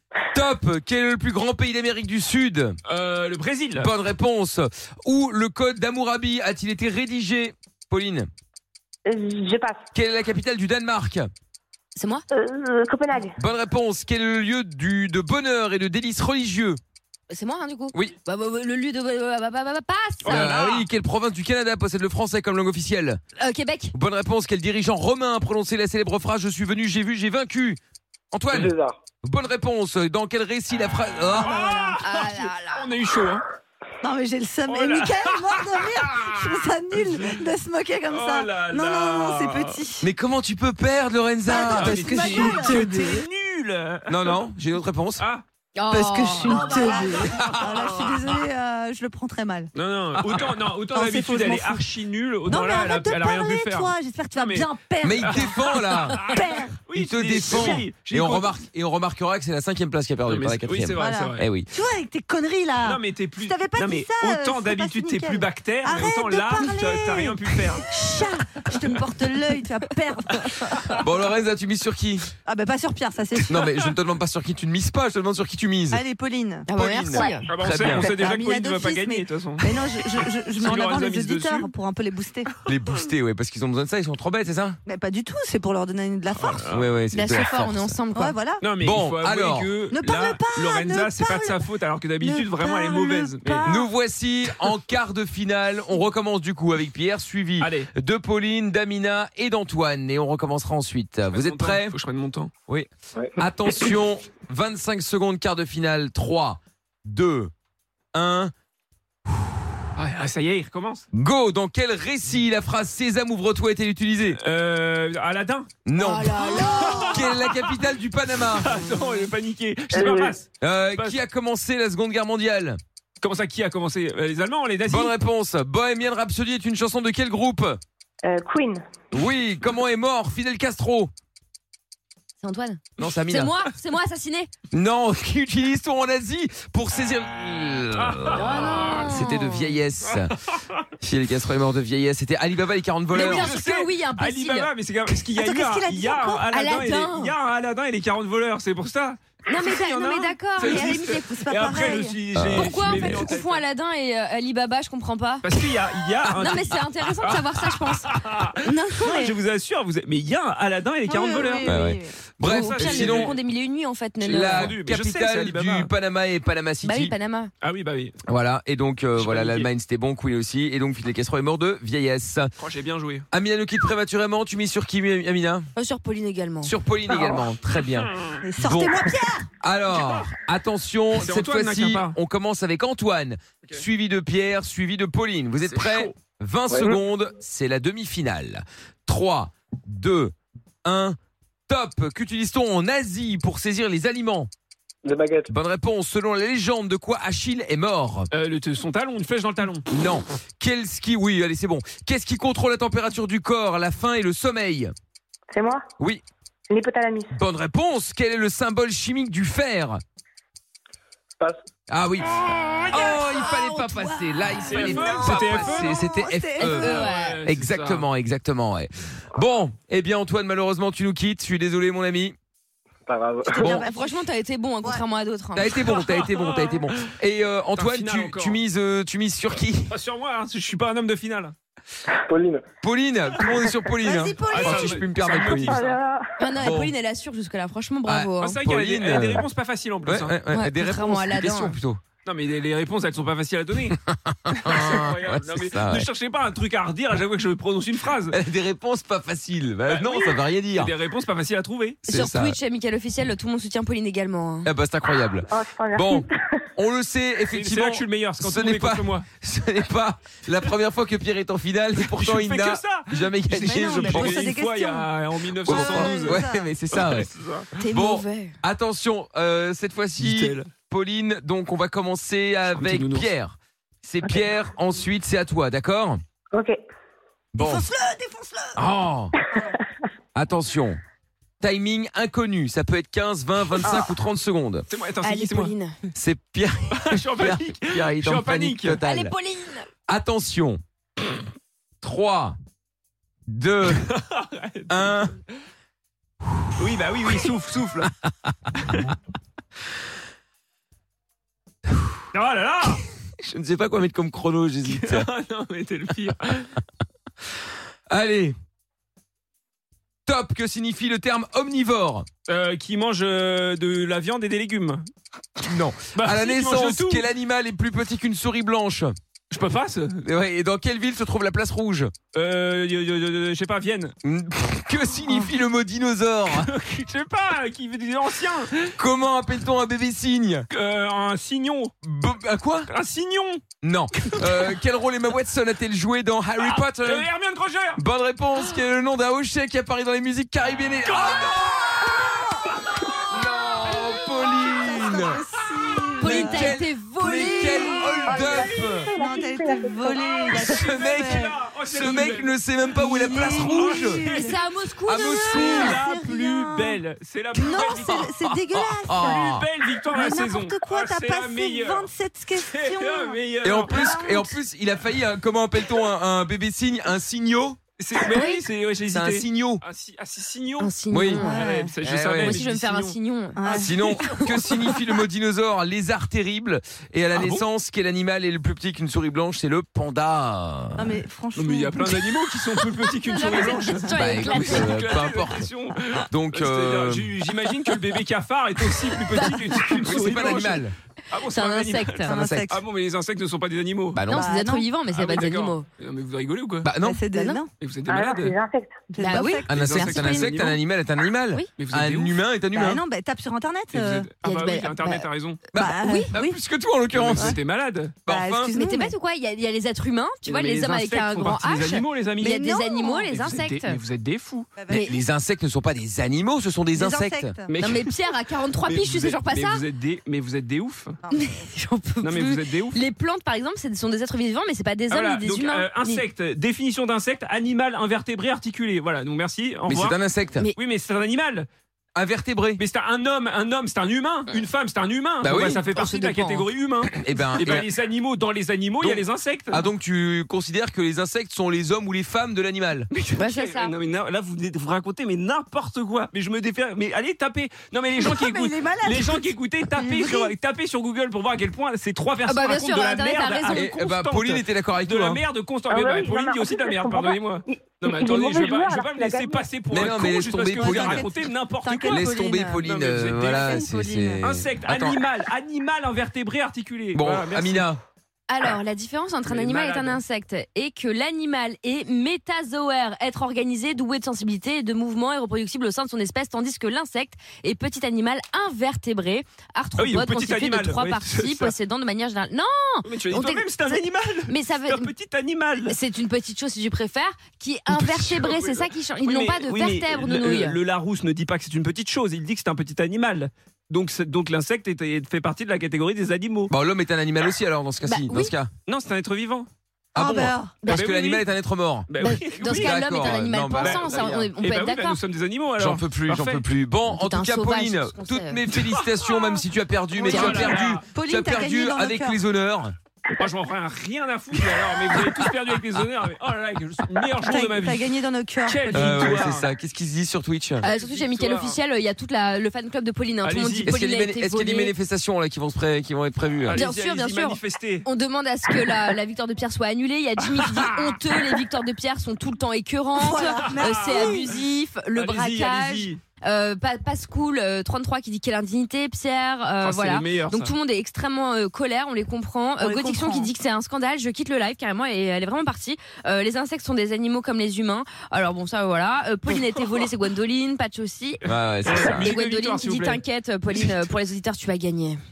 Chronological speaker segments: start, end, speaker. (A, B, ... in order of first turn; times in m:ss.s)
0:00.3-0:02.8 A
0:02.9-0:03.9 B
0:03.8-0:08.3 A
0:09.0-0:09.8 C
0:09.9-0:11.3 A
0:12.0-0:12.2 D
0:12.3-0:13.3 C
0:13.4-0:16.8 A
0:17.3-0:20.6 D
0:20.2-0:20.9 B
0:20.2-0:23.2 A
0:23.4-0:23.9 D
0:23.9-0:27.8 A
0:28.3-0:31.7 A
0:28.5-0:29.0 E
0:31.3-0:33.4 B
0:31.3-0:32.0 F
0:32.0-0:32.9 D
0:34.0-0:40.1 F
0:34.7-0:37.3 B
0:38.0-0:39.8 B
0:40.0-0:42.8 A
0:41.4-0:43.2 F
0:41.7-0:44.4 B
0:44.1-0:45.2 A
0:45.2-0:45.4 B
0:45.8-0:47.1 D
0:45.9-0:49.7 F
0:46.6-0:48.4 B
0:47.4-0:47.7 A
0:49.7-0:58.5 B
0:50.3-0:51.9 F
0:52.4-0:56.7 F
0:55.0-0:56.4 A
0:56.9-1:01.7 A
0:57.5-0:57.8 F
1:00.3-1:01.4 B
1:01.0-1:11.0 F
1:02.8-1:07.8 B
1:11.0-1:12.3 A
1:12.4-1:13.6 F
1:13.5-1:16.0 A
1:15.9-1:16.7 F
1:16.7-1:17.5 D
1:16.7-1:18.1 A
1:17.4-1:21.7 B
1:17.9-1:22.5 F
1:22.6-1:24.8 A
1:24.8-1:26.7 F
1:26.3-1:26.9 B
1:26.6-1:28.0 A
1:27.1-1:28.4 D
1:28.1-1:28.6 F
1:28.6-1:33.7 B
1:28.8-1:29.7 A
1:29.9-1:31.6 F
1:32.2-1:33.9 F
1:33.6-1:41.9 A
1:37.6-1:37.9 B
1:41.3-1:42.5 B
1:42.7-1:47.5 A
1:48.1-1:48.5 A
1:50.0-1:51.0 B
1:51.1-1:54.4 A
1:54.4-1:55.7 B
1:55.8-1:58.7 A
1:56.0-1:57.3 D
1:56.3-2:01.2 B
1:59.9-2:00.3 C
2:00.6-2:02.8 A
2:03.2-2:05.1 B
2:04.9-2:07.8 A
2:08.2-2:08.8 C
2:09.1-2:11.1 A
2:12.4-2:14.5 D
2:13.0-2:13.5 A
2:14.7-2:20.3 A
2:18.0-2:19.0 B
2:18.4-2:19.8 D
2:21.0-2:23.5 A
2:23.1-2:33.6 B
2:23.1-2:24.7 D
2:25.4-2:26.5 F
2:26.5-2:27.3 D
2:29.5-2:32.0 D
2:30.6-2:32.2 F
2:32.3-2:33.3 A
2:32.6-2:35.5 D
2:35.4-2:41.7 B
2:36.2-2:39.2 D
2:39.1-2:39.4 F
2:41.0-2:42.1 F
2:41.6-2:43.3 A
2:42.4-2:43.4 B
2:42.4-2:44.8 D
2:44.2-2:45.9 B
2:44.2-2:47.1 A
2:46.8-2:47.5 D
2:47.6-2:48.2 B
2:48.2-2:52.5 A
2:49.2-2:49.7 B
2:52.6-2:53.2 B
2:53.3-2:55.7 A
2:55.8-2:56.7 D
2:56.6-2:59.1 A
2:57.1-2:57.5 C
2:58.0-2:58.4 B
2:58.4-2:59.5 F
2:59.6-3:10.3 A
2:59.8-3:00.3 B
3:01.1-3:02.2 B
3:05.6-3:06.1 B
3:06.7-3:07.0 E
3:10.8-3:11.2 A
3:11.7-3:14.5 A
3:15.0-3:15.5 E
3:15.5-3:18.3 A
3:18.3-3:19.8 B
3:19.9-3:24.9 A
3:25.5-3:25.8 C
3:26.7-3:27.3 C
3:27.3-3:30.0 A
3:31.9-3:42.4 A
3:32.7-3:33.2 B
3:32.9-3:36.9 F
3:34.6-3:36.0 B
3:36.6-3:37.4 D
3:36.7-3:38.1 B
3:43.1-3:43.8 E
3:43.5-3:45.7 D
3:43.6-3:43.8 A
3:43.6-3:44.3 F
3:45.6-3:49.9 A
3:45.7-3:47.1 B
3:47.8-3:48.6 B
3:49.5-3:51.5 B
3:52.3-3:52.6 E
3:52.8-3:55.8 A
3:54.0-3:55.0 F
3:54.4-3:56.0 B
3:55.5-3:56.5 C
3:56.4-3:58.6 D
3:56.6-3:56.9 A
3:58.0-3:59.5 A
3:58.4-4:00.4 B
4:00.0-4:02.0 A
4:00.5-4:01.8 D
4:02.2-4:04.0 B
4:03.9-4:06.1 A
4:04.5-4:08.4 B
4:08.3-4:10.9 A
4:09.8-4:12.1 B
4:12.0-4:12.6 A
4:12.1-4:14.7 D
4:14.6-4:24.5 A
4:15.5-4:16.6 C
4:17.5-4:19.2 B
4:22.0-4:27.7 B
4:23.6-4:26.7 F
4:25.6-4:27.3 A
4:27.8-4:28.5 D
4:27.9-4:36.2 A
4:30.2-4:30.7 B
4:32.8-4:33.3 B
4:36.5-4:36.8 C
4:37.5-4:37.8 A
4:37.6-4:38.8 F
4:38.8-4:39.4 A
4:40.3-4:41.0 A
4:41.6-4:44.8 A
4:44.9-4:45.7 B
4:45.2-4:46.0 D
4:46.1-4:49.3 A
4:46.9-4:49.0 B
4:49.0-4:49.9 D
4:50.1-4:50.8 A
4:52.0-4:52.6 A
4:53.5-4:54.0 A
4:54.0-4:55.2 B
4:54.9-4:55.3 A
4:56.8-4:58.1 B
4:58.3-4:59.1 A
4:58.8-4:59.1 B
5:02.3-5:03.0 B
5:03.4-5:05.3 A
5:04.8-5:06.7 B
5:08.1-5:08.6 A
5:10.2-5:12.3 A
5:12.5-5:15.1 B
5:15.6-5:19.1 A
5:16.1-5:17.3 B
5:19.5-5:20.2 B
5:20.2-5:22.1 A
5:22.3-5:24.1 B
5:24.2-5:26.7 A
5:26.5-5:28.9 B
5:29.0-5:30.7 A
5:30.7-5:31.9 B
5:32.0-5:32.9 A
5:32.9-5:33.6 B
5:33.8-5:37.3 A
5:34.2-5:34.7 B
5:36.6-5:38.0 B
5:38.0-5:42.3 A
5:41.0-5:42.7 B
5:43.3-5:45.4 A
5:44.0-5:52.4 F
5:45.8-5:46.4 B
5:46.2-5:48.5 D
5:46.2-5:49.1 A
5:48.2-5:50.4 C
5:50.1-5:52.6 B
5:50.5-5:54.4 A
5:52.9-5:54.6 F
5:53.5-5:54.6 B
5:54.3-5:56.1 D
5:55.0-5:56.0 A
5:55.2-5:58.3 B
5:55.8-5:57.0 F
5:57.5-6:04.6 F
5:57.8-5:59.7 A
5:59.2-6:04.2 B
6:03.6-6:07.8 A
6:08.0-6:13.2 B
6:08.2-6:08.6 D
6:09.1-6:09.8 A
6:10.8-6:11.6 D
6:11.1-6:11.4 A
6:11.3-6:12.0 F
6:12.0-6:12.6 A
6:12.4-6:15.1 D
6:13.6-6:14.2 F
6:13.8-6:21.1 A
6:17.3-6:17.6 B
6:21.0-6:22.2 F
6:21.5-6:34.2 B
6:23.2-6:25.2 D
6:24.1-6:25.7 A
6:26.3-6:27.4 A
6:29.3-6:30.1 D
6:30.0-6:30.9 A
6:31.4-6:32.4 D
6:32.3-6:32.7 A
6:32.3-6:32.8 F
6:34.1-6:34.5 A
6:34.3-6:35.9 D
6:34.3-6:34.9 F
6:35.1-6:36.9 B
6:36.8-6:37.2 A
6:37.0-6:37.7 F
6:37.3-6:37.6 D
6:37.8-6:38.6 B
6:38.1-6:39.1 C
6:39.1-6:40.1 F
6:39.2-6:40.5 D
6:39.6-6:40.8 B
6:39.7-6:43.0 A
6:41.8-6:42.4 B
6:42.7-6:44.3 F
6:43.9-6:45.6 B
6:44.4-6:45.3 D
6:45.7-6:47.6 A
6:45.7-6:46.6 F
6:46.0-6:46.3 D
6:47.1-6:48.2 B
6:48.2-6:48.7 A
6:48.3-6:49.2 F
6:48.7-6:54.0 D
6:50.4-6:52.6 B
6:52.5-6:53.2 F
6:53.2-6:54.7 B
6:54.8-6:55.2 F
6:54.9-6:55.2 D
6:54.9-6:57.6 A
6:56.9-6:57.8 F
6:57.7-7:01.2 B
6:57.8-6:59.8 D
7:01.3-7:01.5 F
7:01.3-7:06.2 D
7:02.2-7:03.0 B
7:05.1-7:10.2 B
7:09.9-7:10.7 A
7:10.7-7:11.7 B
7:12.1-7:12.8 A
7:12.8-7:19.9 B
7:15.4-7:15.8 A
7:15.9-7:16.7 D
7:17.1-7:17.9 A
7:19.0-7:23.1 A
7:23.1-7:42.3 B
7:23.4-7:23.9 D
7:28.2-7:30.5 F
7:32.4-7:33.8 D
7:33.7-7:35.4 A
7:35.9-7:39.8 C
7:39.9-7:41.3 A
7:40.0-7:42.8 F
7:42.0-7:45.2 A
7:42.8-7:43.9 B
7:43.5-7:44.4 F
7:44.4-7:47.9 B
7:47.1-7:48.0 A
7:48.5-8:03.9 D
7:49.4-7:50.2 B
8:00.0-8:01.7 B
8:03.0-8:06.0 B
8:04.5-8:05.1 D
8:05.8-8:10.8 D
8:07.9-8:16.7 B
8:16.7-8:18.7 A
8:18.0-8:18.5 D
8:18.9-8:19.7 B
8:20.1-8:20.8 F
8:20.1-8:24.4 A
8:20.8-8:21.5 B
8:22.1-8:26.6 B
8:22.2-8:25.2 D
8:25.8-8:32.9 A
8:27.1-8:28.6 D
8:28.7-8:29.6 B
8:30.2-8:30.6 D
8:30.3-8:31.0 B
8:30.3-8:32.4 F
8:33.4-8:39.7 B
8:37.4-8:39.5 F
8:38.9-8:40.9 A
8:40.8-8:44.9 D
8:40.9-8:41.8 B
8:43.4-8:43.9 B
8:43.8-8:46.8 A
8:46.7-8:48.1 B
8:46.7-9:15.2 D
8:48.7-8:49.0 B
8:50.4-8:51.6 B
8:53.1-8:54.5 F
8:53.6-8:54.6 B
8:55.1-8:56.2 B
8:59.8-9:00.7 B
9:02.8-9:03.5 F
9:09.5-9:10.1 B
9:11.4-9:12.3 A
9:11.8-9:13.2 B
9:13.7-9:14.1 B